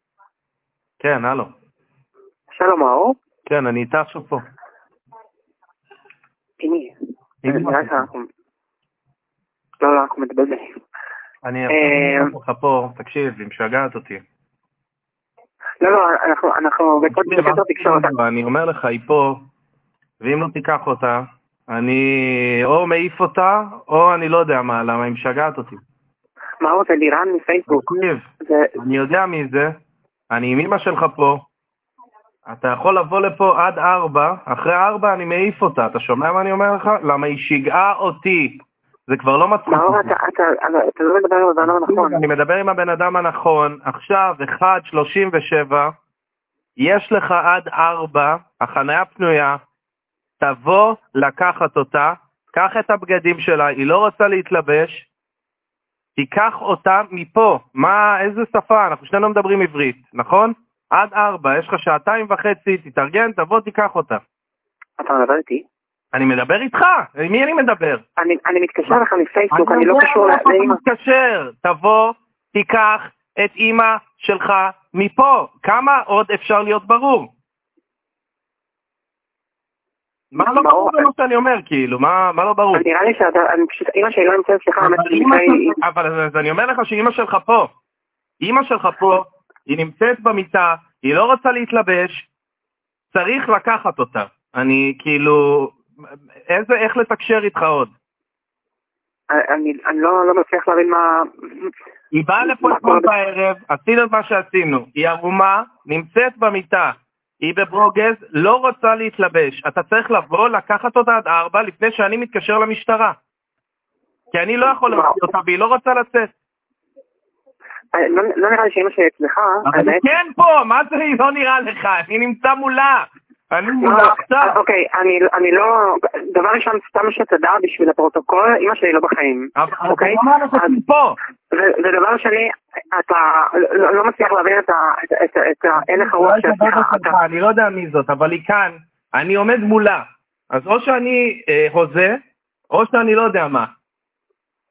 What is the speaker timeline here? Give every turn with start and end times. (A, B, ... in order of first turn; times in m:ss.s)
0:01.0-0:01.5 A
0:02.5-0:03.2 B
0:03.5-0:04.4 A
0:06.6-0:06.9 B
0:07.4-0:08.0 A
0:07.5-0:08.3 B
0:09.8-0:10.7 B
0:11.4-0:14.2 A
0:11.7-0:12.3 B
0:15.8-0:18.1 B
0:17.1-0:19.4 A
0:20.2-0:25.8 A
0:26.6-0:27.8 B
0:27.7-0:28.2 A
0:28.4-0:28.7 B
0:28.8-0:29.7 A
0:30.3-0:31.4 A
0:32.4-0:40.1 A
0:39.7-0:42.2 B
0:41.6-0:45.9 A
0:46.8-0:49.6 A
0:50.4-0:55.1 A
0:56.2-1:04.2 A
1:05.0-1:05.6 B
1:06.1-1:08.0 A
1:08.2-1:10.8 B
1:09.5-1:17.3 A
1:20.3-1:22.8 A
1:20.4-1:21.1 B
1:22.7-1:25.8 B
1:24.8-1:27.7 A
1:28.4-1:32.3 A
1:33.1-1:35.8 A
1:36.5-1:37.9 A
1:39.3-1:41.7 B
1:42.1-1:53.1 A
1:42.4-1:43.1 B
1:54.3-1:56.3 A
1:54.8-1:55.2 B
1:57.9-2:00.0 B
1:59.6-2:04.6 A
2:03.8-2:10.8 B
2:09.6-2:11.2 A
2:11.5-2:17.2 B
2:15.8-2:22.2 A
2:22.7-2:23.7 A